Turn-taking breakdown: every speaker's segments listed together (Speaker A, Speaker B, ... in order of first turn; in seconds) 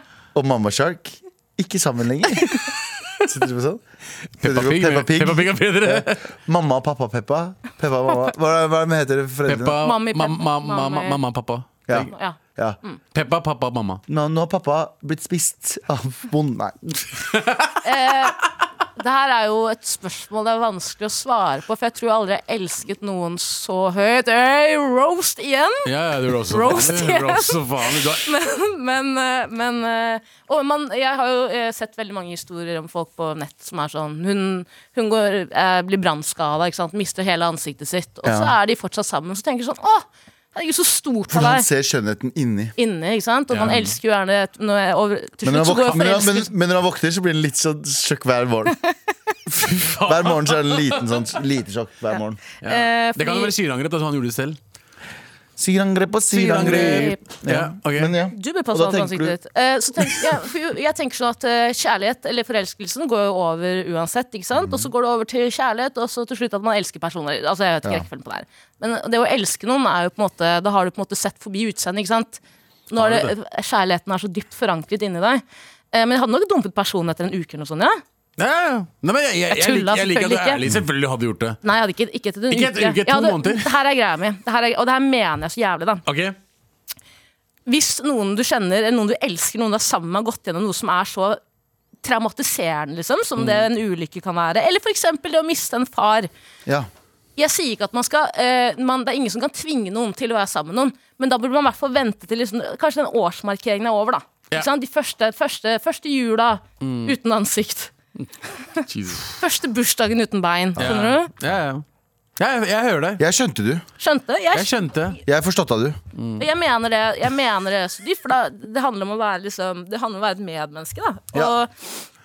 Speaker A: 0.3-2.6, 3.2-3.8, 4.4-9.8, 11.9-12.8, 14.1-17.1, 38.2-38.5, 41.3-42.7, 45.4-48.8, 50.0-52.4, 55.6-59.4, 64.6-64.9, 113.2-113.8, 115.3-116.0
Speaker B: 4.4-6.3, 9.5-12.1, 13.1-14.0, 17.3-17.8, 25.9-28.3, 43.5-43.9, 49.5-51.2, 52.6-54.6, 56.3-58.2, 73.0-73.3, 78.4-81.6, 82.5-83.8, 86.1-86.3, 93.4-93.7, 106.8-107.2, 108.9-109.4, 110.8-111.8, 112.4-113.2, 114.5-115.2, 116.2-116.5
Speaker C: 9.8-11.2, 12.0-13.0, 17.8-18.4, 19.0-25.9, 26.5-41.7, 42.8-46.5, 52.6-53.5, 56.4-57.2, 58.3-78.0, 79.5-80.6, 81.6-86.0, 87.7-91.4, 92.0-96.3, 97.4-107.9, 108.6-111.3, 114.0-114.7, 116.4-121.9